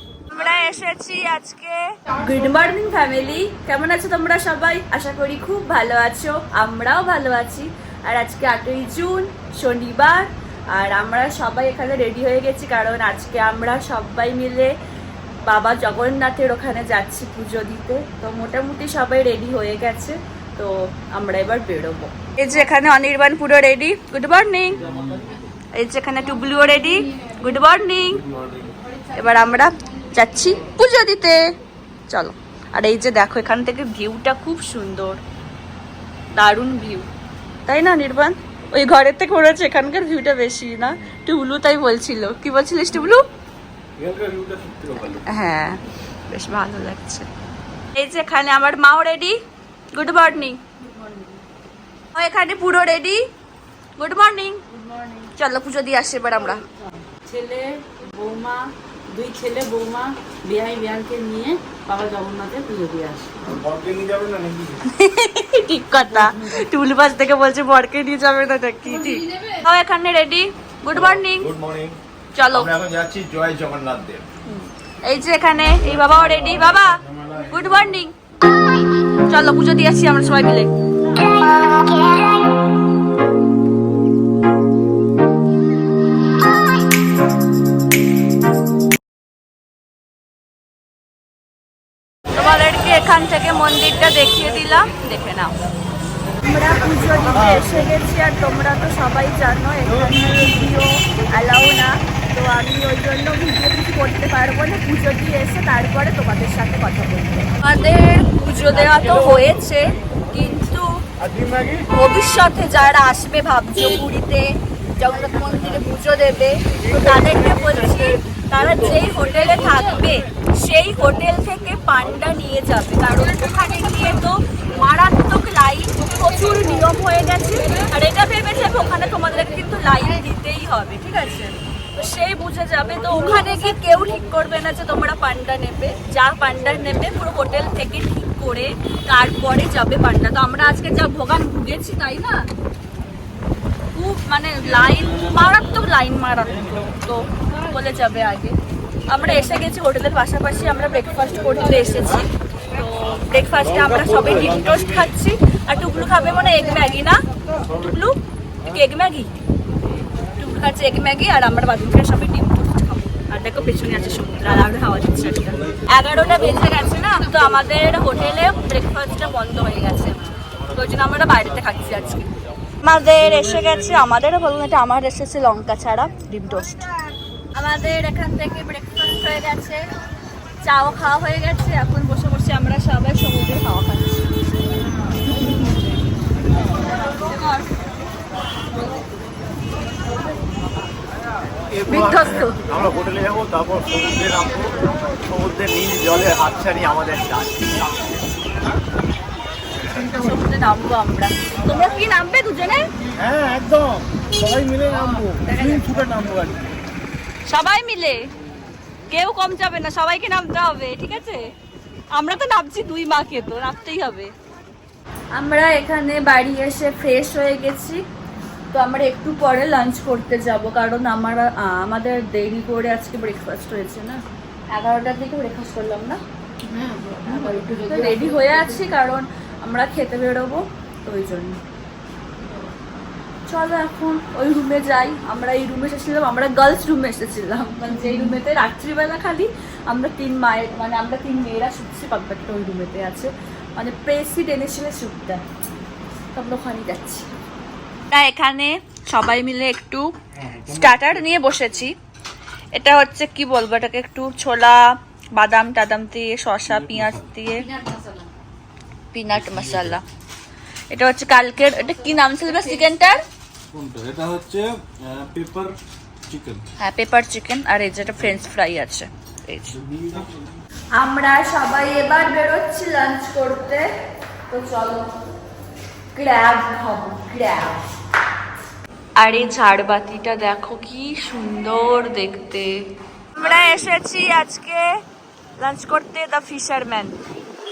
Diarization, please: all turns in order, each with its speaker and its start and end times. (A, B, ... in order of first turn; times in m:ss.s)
0:00.3-0:14.7 A
0:15.4-0:25.0 A
0:25.7-0:28.2 A
0:29.0-0:31.5 A
0:32.1-0:35.2 A
0:36.3-0:37.1 A
0:37.6-0:43.3 A
0:44.1-0:45.0 B
0:45.0-0:47.3 A
0:47.9-0:49.4 A
0:49.9-0:50.6 A
0:52.1-0:53.3 A
0:54.0-0:54.6 A
0:54.8-0:55.3 C
0:55.2-0:56.7 A
0:57.1-0:58.6 C
0:57.2-0:58.6 A
0:59.1-1:03.2 A
0:59.2-1:03.4 C
1:03.4-1:04.8 D
1:04.8-1:11.6 A
1:11.6-1:12.0 D
1:12.3-1:12.9 A
1:12.8-1:14.2 D
1:14.4-1:18.1 A
1:19.2-1:20.7 A
1:32.3-1:35.6 A
1:36.4-1:51.0 A
1:51.4-1:51.6 D
1:51.7-2:22.5 A
2:23.9-2:39.4 A
2:40.4-2:56.9 A
2:57.5-2:59.8 A
3:00.6-3:04.3 A
3:07.0-3:07.7 A
3:11.8-3:12.7 A
3:12.6-3:17.8 D
3:19.9-3:22.9 A
3:23.2-3:25.4 D
3:25.1-3:26.3 A
3:26.1-3:26.6 D
3:27.4-3:28.3 A
3:29.1-3:31.5 A
3:32.1-3:34.3 A
3:35.4-3:38.0 A
3:38.7-3:46.2 A
3:46.7-3:47.2 C
3:47.0-3:51.6 A
3:53.5-4:05.4 A
4:06.3-4:07.3 A
4:08.1-4:11.9 A
4:12.7-4:17.8 A
4:17.8-4:18.3 C
4:19.1-4:20.0 A
4:20.9-4:23.2 A
4:23.7-4:25.4 D
4:23.8-4:24.8 B
4:25.4-4:25.8 B
4:26.3-4:26.6 D
4:26.8-4:29.8 A
4:30.9-4:33.9 A
4:34.5-4:35.1 A
4:36.1-4:37.8 A
4:39.2-4:45.0 A
4:45.6-4:47.2 A